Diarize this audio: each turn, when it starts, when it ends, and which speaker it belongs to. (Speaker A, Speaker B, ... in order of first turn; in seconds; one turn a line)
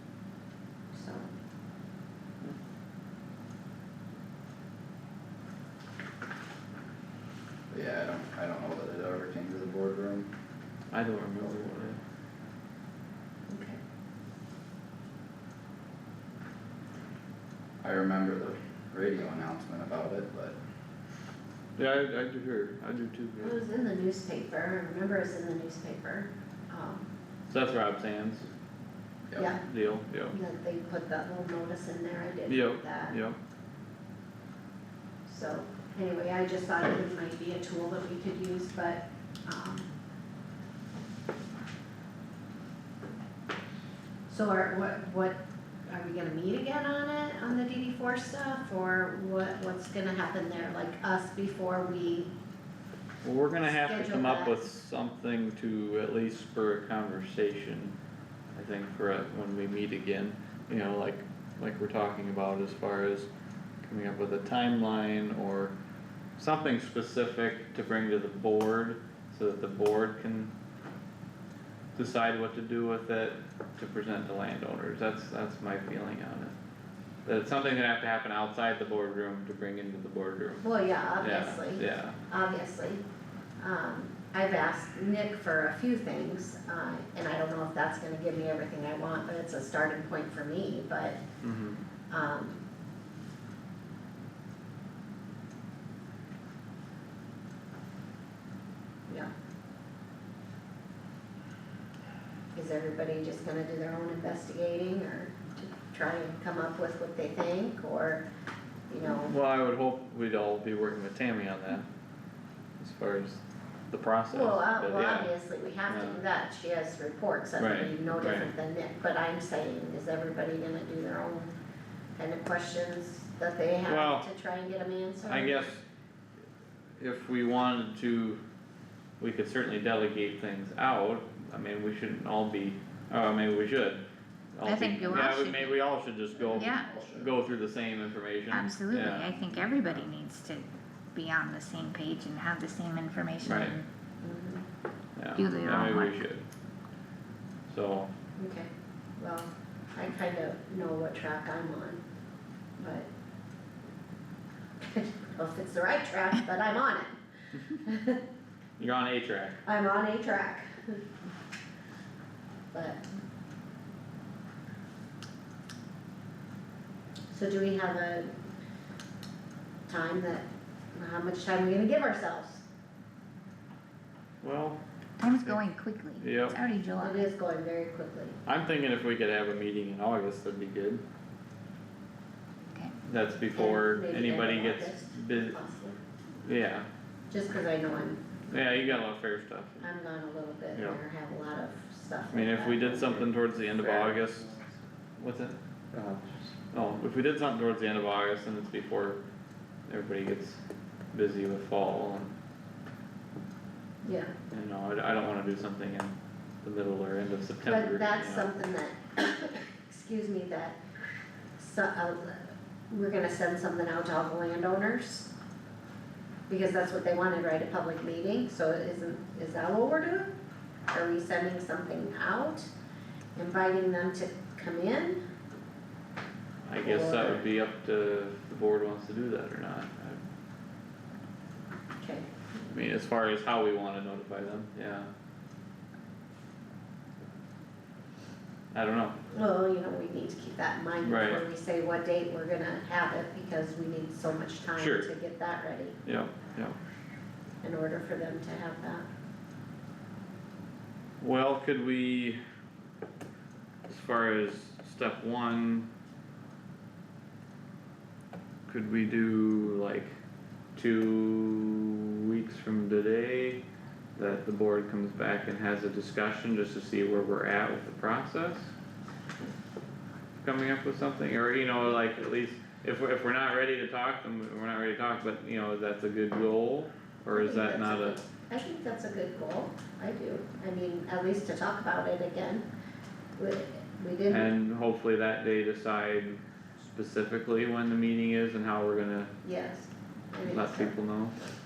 Speaker A: 0.9-1.3
Speaker B: 7.7-10.3
Speaker C: 10.9-12.0
Speaker A: 13.5-13.8
Speaker B: 17.8-20.6
Speaker C: 21.8-23.6
Speaker A: 23.4-27.1
Speaker C: 27.5-28.4
Speaker A: 29.4-29.6
Speaker C: 29.6-30.3
Speaker A: 30.3-33.2
Speaker C: 32.5-33.4
Speaker A: 35.2-39.9
Speaker A: 44.3-52.3
Speaker C: 53.2-57.9
Speaker A: 53.6-54.5
Speaker C: 58.5-63.3
Speaker C: 63.8-65.7
Speaker C: 66.4-70.5
Speaker C: 71.9-76.5
Speaker C: 77.2-80.6
Speaker A: 80.6-83.0
Speaker C: 81.2-82.2
Speaker A: 83.6-91.2
Speaker C: 91.4-91.8
Speaker A: 92.1-92.6
Speaker A: 102.5-108.2
Speaker A: 108.9-109.3
Speaker C: 109.0-111.9
Speaker C: 112.8-115.3
Speaker A: 114.3-121.5
Speaker C: 115.9-116.2
Speaker C: 117.6-118.5
Speaker A: 122.2-125.7
Speaker C: 123.8-124.3
Speaker C: 125.2-125.8
Speaker C: 127.0-128.4
Speaker C: 129.2-134.0
Speaker C: 134.5-140.1
Speaker D: 134.6-135.8
Speaker B: 136.3-137.3
Speaker D: 136.5-136.9
Speaker D: 138.5-143.9
Speaker C: 143.4-143.7
Speaker A: 144.2-144.6
Speaker C: 145.2-146.4
Speaker D: 145.3-146.1
Speaker C: 147.7-148.1
Speaker A: 148.4-152.0
Speaker A: 152.8-153.1
Speaker A: 154.8-158.2
Speaker C: 158.8-159.6
Speaker A: 159.6-161.0
Speaker A: 162.7-163.0
Speaker A: 167.3-168.3
Speaker A: 169.9-172.6
Speaker C: 174.4-174.8
Speaker D: 175.2-177.3
Speaker C: 176.2-176.6
Speaker A: 177.0-178.3
Speaker C: 178.4-181.0
Speaker C: 183.0-185.6
Speaker A: 183.5-186.0
Speaker C: 186.4-186.9
Speaker A: 187.3-188.2
Speaker C: 188.5-189.8
Speaker A: 189.8-193.3
Speaker C: 190.7-191.0
Speaker C: 192.3-194.6
Speaker A: 193.8-194.1
Speaker C: 195.2-199.2
Speaker C: 199.9-200.6
Speaker C: 201.1-202.3
Speaker A: 204.0-204.3
Speaker C: 204.5-208.5
Speaker A: 207.6-210.8
Speaker A: 211.6-215.3
Speaker A: 216.5-220.3
Speaker A: 220.9-222.7
Speaker A: 223.3-225.2
Speaker C: 226.7-230.2
Speaker A: 226.8-227.4
Speaker A: 232.0-232.3
Speaker C: 232.7-235.1
Speaker C: 238.7-239.2
Speaker A: 239.3-246.0
Speaker C: 241.0-241.4
Speaker C: 244.8-245.1
Speaker C: 246.0-246.8
Speaker A: 247.6-249.1
Speaker C: 251.2-252.4
Speaker C: 253.9-255.9
Speaker C: 258.7-260.1
Speaker C: 260.8-263.6
Speaker C: 264.1-268.7
Speaker C: 270.4-278.2
Speaker A: 277.3-282.6
Speaker A: 283.4-284.5
Speaker C: 284.3-289.3
Speaker A: 289.4-290.9
Speaker C: 290.4-291.4